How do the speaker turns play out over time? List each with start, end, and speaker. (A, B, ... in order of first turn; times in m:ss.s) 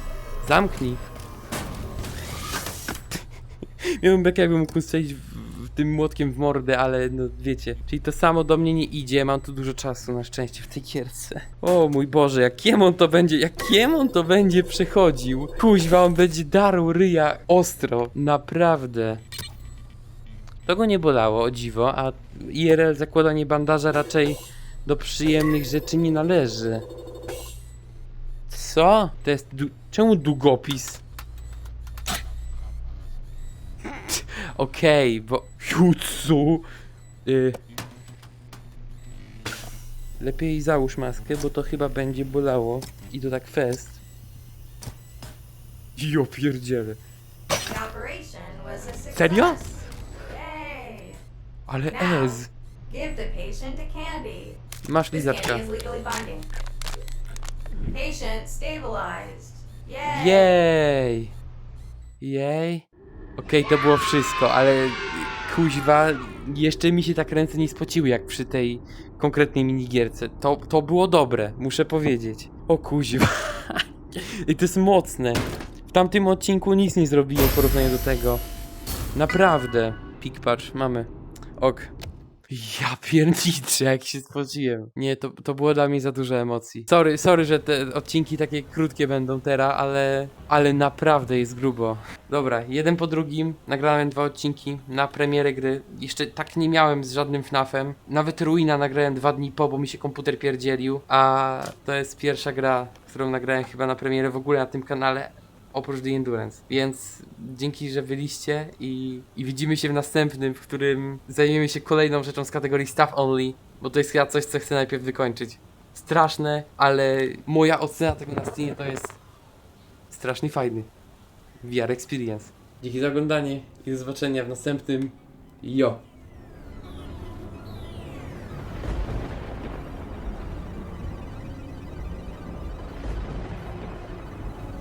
0:00.4-0:01.0 A
0:04.0-0:19.2 A
0:20.6-0:26.8 A
0:28.5-0:31.0 A
0:33.9-0:36.6 A
0:37.2-0:37.6 A
0:40.2-0:44.0 A
0:46.0-0:47.0 A
0:47.6-0:51.2 B
0:49.1-0:49.6 A
0:51.7-0:52.5 A
0:51.9-0:54.6 B
0:54.8-0:55.6 A
0:55.1-0:56.5 B
0:57.9-1:00.5 B
1:00.0-1:01.3 A
1:02.2-1:02.8 A
1:03.4-1:18.4 A
1:19.1-1:21.9 A
1:22.5-1:59.2 A
2:00.1-2:00.9 A
2:01.6-2:06.0 A